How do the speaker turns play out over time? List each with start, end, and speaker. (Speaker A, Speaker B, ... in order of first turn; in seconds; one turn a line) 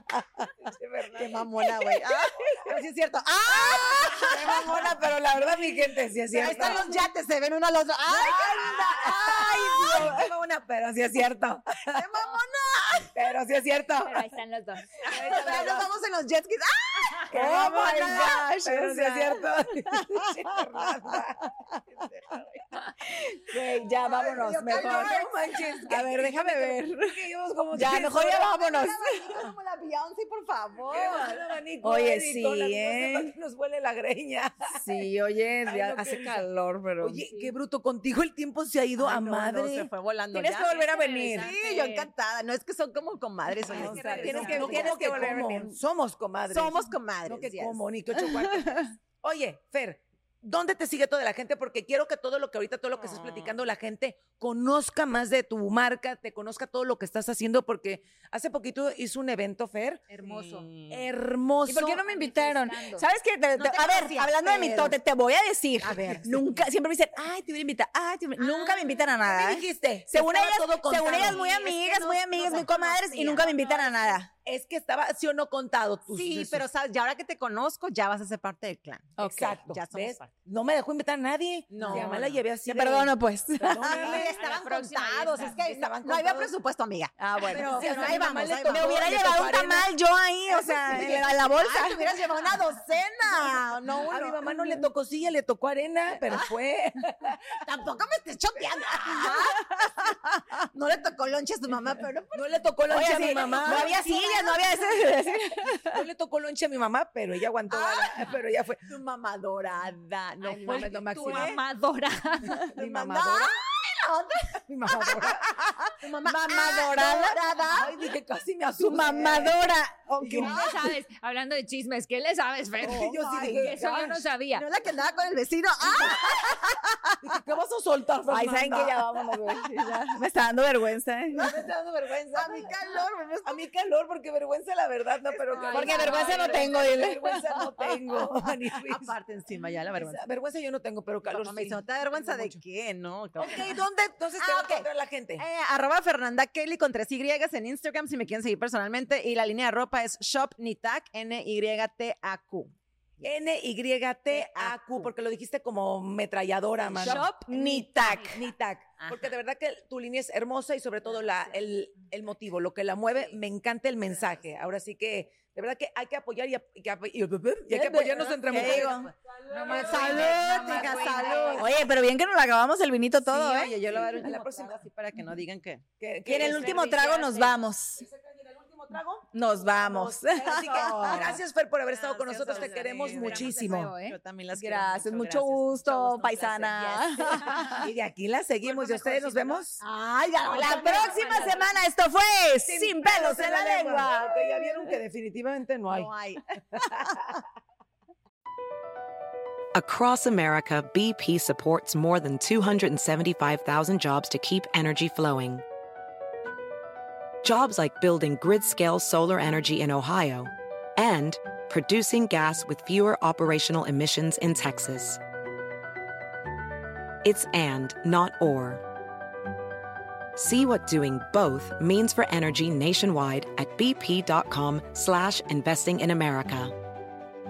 Speaker A: 0.4-2.6
Speaker B: 1.1-5.0
Speaker A: 3.5-6.9
Speaker C: 3.8-7.0
Speaker B: 6.3-10.2
Speaker A: 8.1-12.1
Speaker C: 8.4-10.3
Speaker B: 11.9-13.2
Speaker A: 13.1-14.2
Speaker D: 14.0-15.6
Speaker A: 15.1-15.9
Speaker B: 15.1-18.5
Speaker A: 17.3-22.9
Speaker C: 17.3-21.5
Speaker C: 23.0-27.2
Speaker A: 24.0-28.5
Speaker B: 24.0-25.8
Speaker C: 27.7-29.4
Speaker B: 28.2-31.4
Speaker A: 30.9-34.9
Speaker C: 31.8-33.3
Speaker C: 34.8-37.2
Speaker A: 35.7-36.5
Speaker A: 37.0-39.9
Speaker D: 37.3-37.5
Speaker B: 39.0-40.8
Speaker C: 40.3-41.5
Speaker D: 40.7-42.1
Speaker B: 41.4-45.5
Speaker C: 43.5-45.8
Speaker A: 43.7-60.1
Speaker D: 43.7-44.9
Speaker B: 46.5-47.8
Speaker C: 48.1-48.9
Speaker B: 53.0-53.6
Speaker D: 60.1-60.7
Speaker B: 60.2-61.1
Speaker A: 60.9-62.0
Speaker C: 61.7-74.3
Speaker D: 61.9-63.1
Speaker B: 63.5-64.9
Speaker A: 64.4-64.9
Speaker B: 65.8-66.6
Speaker B: 68.4-69.0
Speaker A: 69.2-71.4
Speaker B: 71.1-72.7
Speaker D: 71.3-74.2
Speaker A: 74.4-76.7
Speaker B: 76.1-80.3
Speaker C: 79.2-79.5
Speaker A: 79.2-84.3
Speaker B: 81.7-82.4
Speaker C: 81.8-82.1
Speaker C: 82.7-84.0
Speaker B: 83.9-89.2
Speaker D: 84.0-85.6
Speaker A: 85.4-86.5
Speaker C: 87.2-92.0
Speaker A: 87.5-89.9
Speaker A: 90.5-91.2
Speaker B: 90.9-94.4
Speaker A: 94.1-97.6
Speaker C: 94.5-94.9
Speaker B: 97.6-99.8
Speaker A: 98.6-99.3
Speaker C: 99.2-99.9
Speaker B: 100.7-104.7
Speaker A: 102.3-103.9
Speaker C: 102.9-106.1
Speaker A: 105.8-108.9
Speaker B: 107.7-111.6
Speaker D: 110.4-112.7
Speaker A: 110.5-111.6
Speaker A: 112.7-113.5
Speaker B: 112.8-118.0
Speaker A: 114.7-115.9
Speaker C: 116.2-117.5
Speaker A: 117.7-119.6
Speaker C: 118.8-120.9
Speaker A: 120.2-120.9
Speaker D: 120.4-124.7
Speaker A: 122.8-124.2
Speaker C: 122.9-123.7
Speaker B: 124.5-126.9
Speaker A: 125.8-126.6
Speaker A: 127.2-129.3
Speaker C: 128.3-131.5
Speaker A: 131.3-132.7
Speaker B: 132.3-133.6
Speaker A: 133.4-139.1
Speaker D: 135.5-136.8
Speaker B: 135.5-136.3
Speaker C: 135.7-138.3
Speaker B: 138.8-140.2
Speaker A: 140.0-142.6
Speaker B: 141.2-143.8
Speaker A: 143.4-145.4
Speaker B: 144.4-153.3
Speaker A: 153.2-171.5
Speaker B: 154.3-155.1
Speaker B: 156.8-157.4
Speaker C: 156.9-158.5
Speaker B: 159.0-159.4
Speaker B: 161.1-161.6
Speaker B: 163.1-163.4
Speaker B: 164.1-164.4
Speaker C: 167.7-169.1
Speaker B: 168.2-171.8
Speaker D: 169.5-171.7
Speaker C: 170.0-170.8
Speaker C: 171.6-173.8
Speaker B: 173.2-175.8
Speaker A: 173.8-174.8
Speaker A: 176.0-177.2
Speaker C: 176.2-178.1
Speaker D: 176.4-177.6
Speaker A: 178.0-183.9
Speaker C: 179.3-181.3
Speaker B: 180.4-187.8
Speaker D: 182.7-184.2
Speaker C: 184.5-187.9
Speaker A: 187.5-189.8
Speaker B: 188.6-191.6
Speaker A: 190.4-191.5
Speaker C: 190.5-195.0
Speaker D: 190.8-191.6
Speaker A: 192.7-196.1
Speaker B: 195.9-196.4
Speaker A: 196.7-197.4
Speaker E: 199.7-205.6
Speaker E: 207.4-215.2
Speaker E: 217.2-218.8
Speaker E: 220.4-226.8